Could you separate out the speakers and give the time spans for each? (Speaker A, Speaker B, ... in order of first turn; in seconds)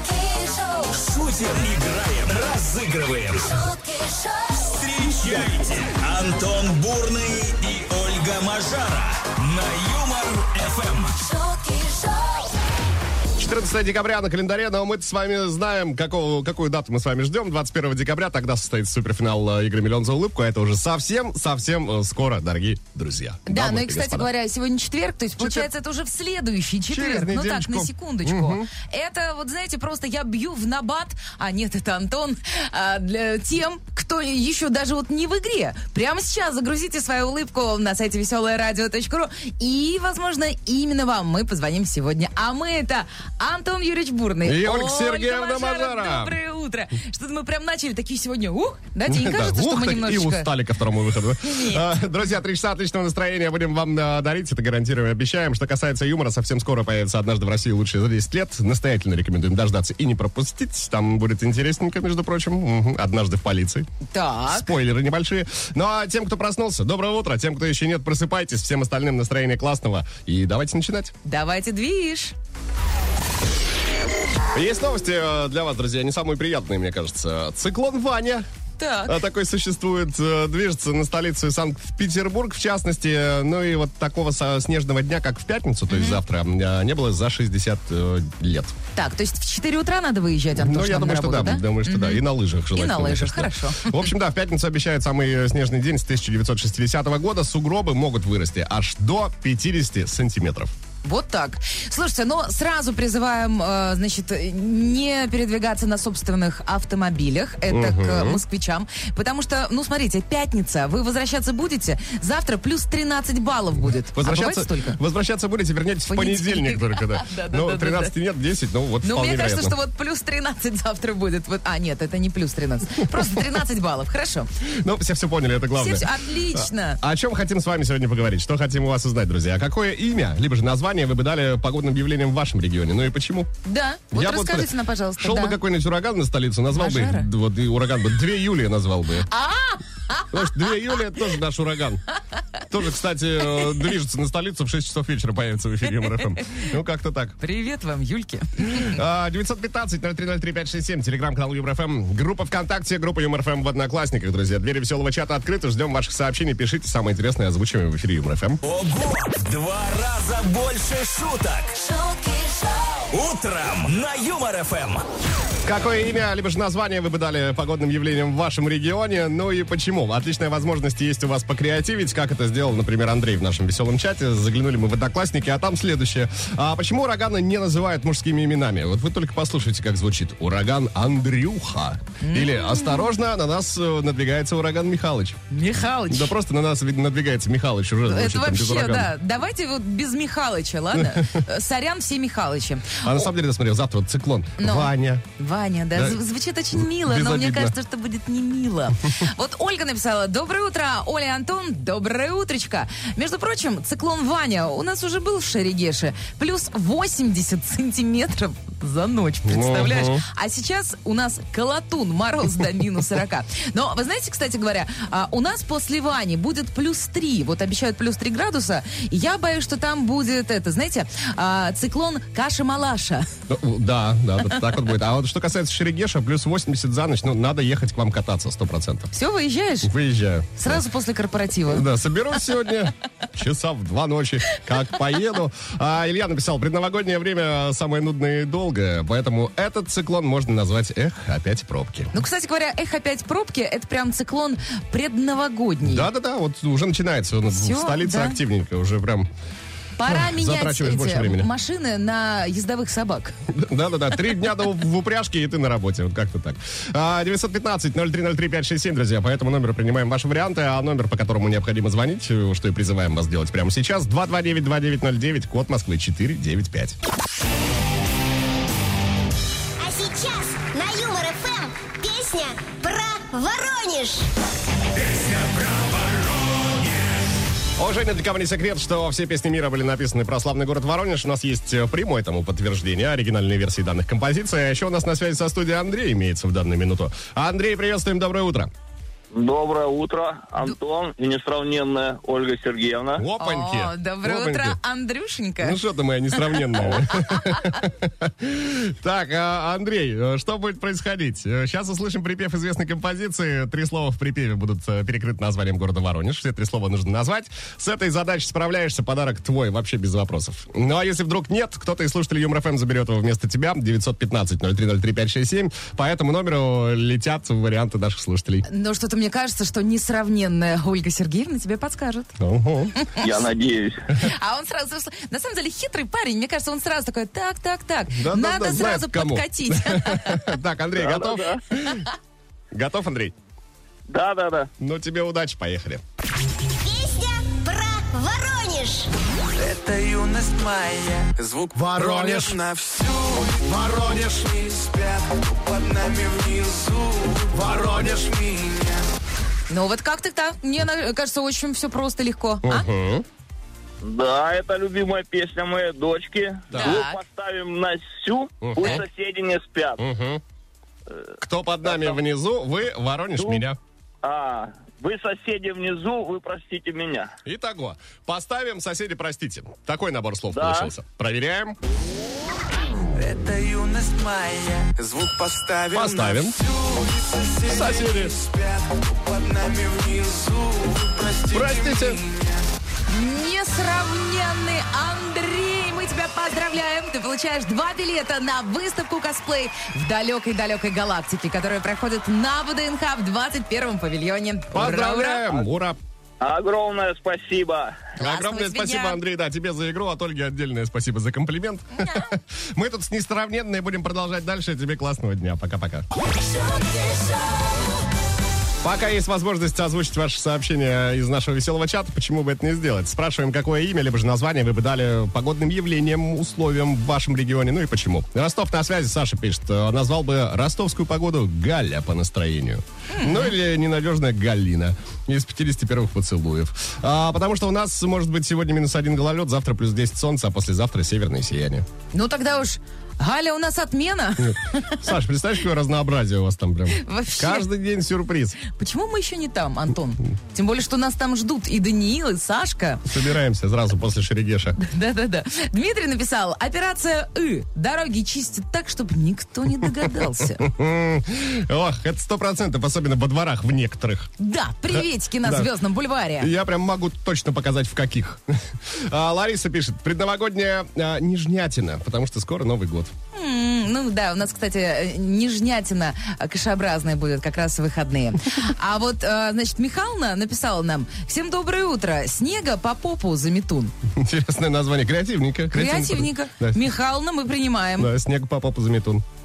Speaker A: 0.6-3.7, 4.5-11.3, 158.6-162.0, 163.1-165.0
Speaker B: 13.4-24.3, 25.4-25.7, 26.9-28.7, 44.4-46.4, 49.0-63.9, 64.5-71.1, 74.5-78.4, 79.1-88.7, 90.5-100.7, 107.7-108.4, 114.1-119.8, 124.7-133.5, 134.1-139.3, 140.3-142.0, 142.6-147.4, 148.6-158.6, 165.6-185.4, 186.1-189.1, 190.9-191.4, 193.0-195.2, 195.9-196.2, 196.8-197.7, 209.4-210.2, 223.5-229.1, 229.8-230.8, 231.7-242.1, 245.8-249.3, 250.0-251.5, 253.5-267.0, 277.8-288.7, 293.2-294.8, 295.6-318.6, 322.4-322.9, 328.1-332.1, 332.7-333.3, 334.8-336.0, 341.7-342.6, 343.7-344.3, 347.5-348.2, 352.6-353.2, 356.7-357.0, 358.6-359.0, 360.0-360.4, 361.4-363.8, 367.4-371.8, 375.9-376.6, 377.6-378.4, 381.5-382.2, 394.7-396.0, 398.2-406.1, 408.8-431.9, 434.4-438.6, 443.1-444.8, 450.6-454.3, 454.9-455.7, 456.4-463.1, 474.1-476.8, 478.0-479.2
Speaker C: 23.5-50.5, 51.4-51.9, 64.1-64.7, 71.2-72.3, 78.8-79.2, 85.9-86.2, 88.9-94.0, 101.0-115.0, 116.1-118.1, 119.0-124.5, 125.7-127.0, 133.6-135.6, 136.7-137.3, 139.3-140.7, 147.4-148.9, 182.2-183.1, 185.5-186.3, 188.1-193.2, 194.6-223.3, 229.1-229.9, 230.6-231.8, 242.1-246.1, 247.5-248.4, 250.0-253.3, 293.4-295.8, 296.5-297.0, 318.6-322.3, 322.9-323.2, 324.1-330.5, 349.7-352.9, 356.7-357.2, 383.1-395.4, 398.2-399.2, 402.0-402.3, 406.8-407.2, 423.1-423.5, 432.1-435.0, 436.9-437.7, 438.7-443.1, 444.8-450.6, 454.4-456.5, 463.3-473.9, 475.7-478.1
Speaker D: 269.8-274.3, 336.8-339.1
Speaker E: 289.3-293.2, 323.2-324.0, 330.9-331.6, 334.1-334.7, 354.0-360.0, 361.8-362.2, 363.4-363.6, 364.2-367.3, 370.5-370.9, 396.4-398.1
Speaker F: 339.6-349.0, 373.1-382.5